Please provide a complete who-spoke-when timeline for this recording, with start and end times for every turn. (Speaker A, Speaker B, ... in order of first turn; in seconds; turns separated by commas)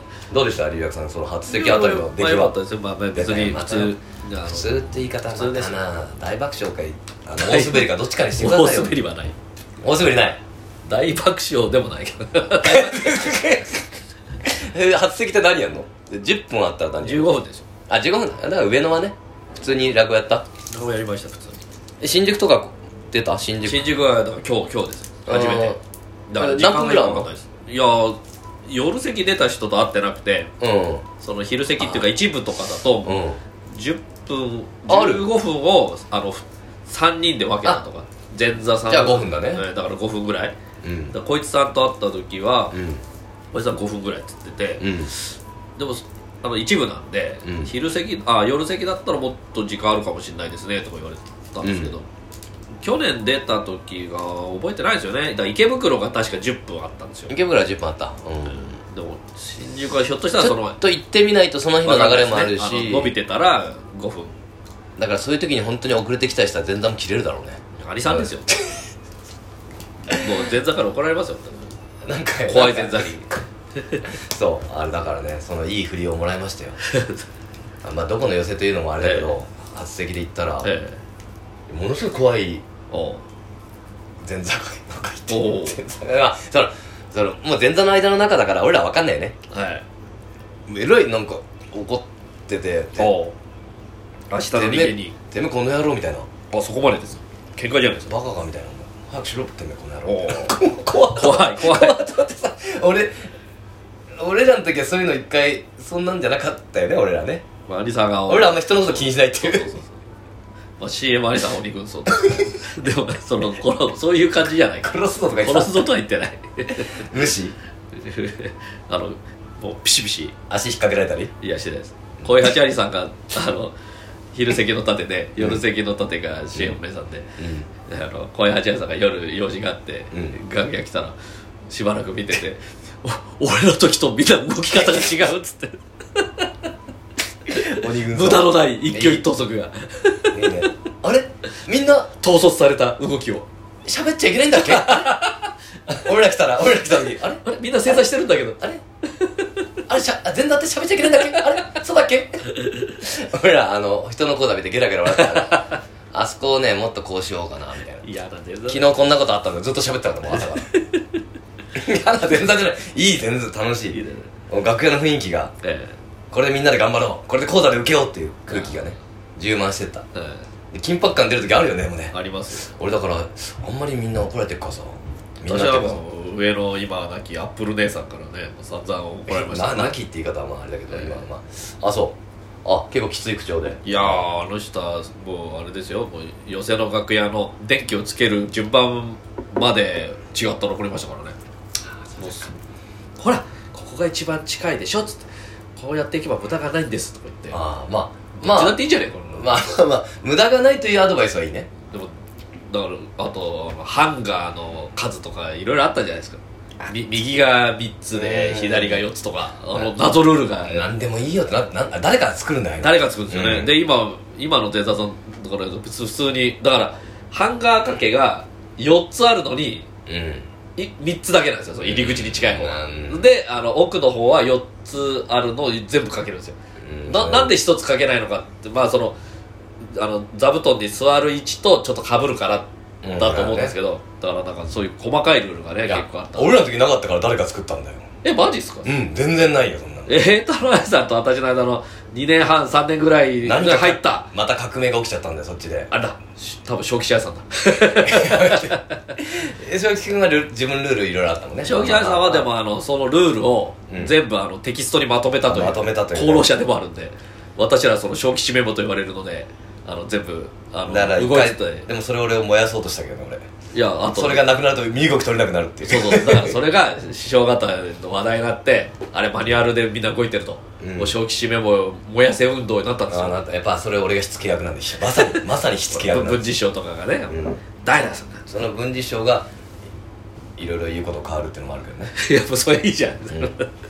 Speaker A: 0.3-2.6, Speaker B: 1.5-5.8, Speaker A: 3.1-9.0, Speaker B: 7.4-9.3, Speaker A: 9.8-10.4, Speaker B: 10.9-13.7, Speaker A: 12.6-13.8, Speaker A: 14.4-17.3, Speaker B: 17.0-17.6, Speaker A: 17.9-20.4, Speaker B: 20.7-21.6, Speaker A: 22.0-24.0, Speaker B: 23.6-30.5, Speaker A: 25.3-25.8, Speaker A: 26.4-27.3, Speaker A: 30.6-31.1, Speaker B: 31.2-40.6, Speaker A: 31.8-32.1, Speaker A: 33.0-33.4, Speaker A: 34.9-35.2, Speaker A: 38.9-39.6, Speaker A: 40.8-41.2, Speaker B: 41.1-42.8, Speaker A: 42.7-43.0, Speaker B: 43.5-52.1, Speaker A: 44.8-45.1, Speaker A: 47.4-47.7, Speaker A: 51.6-52.0, Speaker B: 52.8-57.3, Speaker A: 57.3-58.7, Speaker B: 58.5-60.8, Speaker A: 60.4-63.1, Speaker B: 61.9-64.3, Speaker A: 65.0-68.8, Speaker B: 67.8-68.5, Speaker B: 70.1-71.7, Speaker A: 72.0-73.1, Speaker B: 72.5-73.3, Speaker B: 73.8-74.1, Speaker A: 74.1-76.8, Speaker B: 76.9-77.2, Speaker A: 77.8-80.7, Speaker B: 79.0-79.3, Speaker B: 80.6-81.0, Speaker A: 81.7-82.6, Speaker B: 82.9-83.2, Speaker A: 84.2-89.4, Speaker B: 85.3-85.8, Speaker B: 89.5-89.8, Speaker A: 90.7-93.2, Speaker B: 93.0-93.3, Speaker B: 94.3-95.2, Speaker A: 94.5-96.3, Speaker B: 96.5-98.1, Speaker A: 98.1-103.3, Speaker B: 100.1-100.6, Speaker B: 101.1-102.1, Speaker A: 104.2-107.4, Speaker B: 107.7-110.0, Speaker A: 108.3-109.7, Speaker B: 110.8-117.1, Speaker A: 114.8-115.8, Speaker A: 116.8-117.5, Speaker B: 117.9-120.4, Speaker A: 120.5-121.3, Speaker B: 121.4-123.7, Speaker B: 124.3-127.3, Speaker A: 127.4-127.7, Speaker B: 127.9-131.2, Speaker A: 130.1-130.4, Speaker B: 131.7-136.5, Speaker A: 134.7-135.1, Speaker B: 137.5-140.7, Speaker A: 137.7-139.3, Speaker A: 140.3-142.1, Speaker B: 142.2-143.5, Speaker A: 143.9-145.1, Speaker B: 144.6-145.5, Speaker A: 145.9-148.8, Speaker B: 147.4-148.6, Speaker B: 149.2-149.6, Speaker A: 149.9-158.1, Speaker B: 151.1-151.6, Speaker B: 152.7-152.9, Speaker B: 155.1-155.8, Speaker B: 158.0-159.0, Speaker A: 158.7-160.7, Speaker B: 160.3-161.1, Speaker A: 161.8-165.5, Speaker B: 163.9-164.3, Speaker B: 165.6-166.0, Speaker A: 166.3-170.1, Speaker B: 168.5-168.9, Speaker B: 170.1-170.5, Speaker A: 170.7-176.0, Speaker B: 172.1-172.7, Speaker B: 175.5-180.0, Speaker A: 179.3-184.2, Speaker B: 180.9-181.2, Speaker B: 183.8-191.4, Speaker A: 192.1-192.5, Speaker B: 192.2-192.5, Speaker B: 193.2-195.2, Speaker B: 195.8-197.6, Speaker A: 197.5-201.7, Speaker B: 198.4-199.6, Speaker B: 202.7-210.9, Speaker A: 208.1-209.0, Speaker A: 210.6-213.7, Speaker B: 212.8-219.9, Speaker A: 220.1-220.5, Speaker B: 220.8-226.6, Speaker A: 221.8-223.3, Speaker A: 226.8-227.6, Speaker B: 227.1-229.2, Speaker B: 229.8-236.6, Speaker A: 233.0-233.8, Speaker A: 235.9-238.1, Speaker B: 238.2-239.0, Speaker A: 238.8-240.2, Speaker B: 240.1-244.3, Speaker A: 243.4-245.9, Speaker B: 245.9-249.1, Speaker A: 247.9-252.5, Speaker B: 251.6-261.9, Speaker A: 253.9-254.2, Speaker A: 255.4-256.5, Speaker A: 260.9-263.5, Speaker B: 263.7-264.5, Speaker A: 264.1-266.6, Speaker B: 265.9-273.4, Speaker A: 270.8-271.2, Speaker A: 273.1-276.5, Speaker B: 275.1-278.4, Speaker A: 277.3-277.6, Speaker A: 278.5-279.5, Speaker A: 280.6-282.1, Speaker B: 282.1-283.7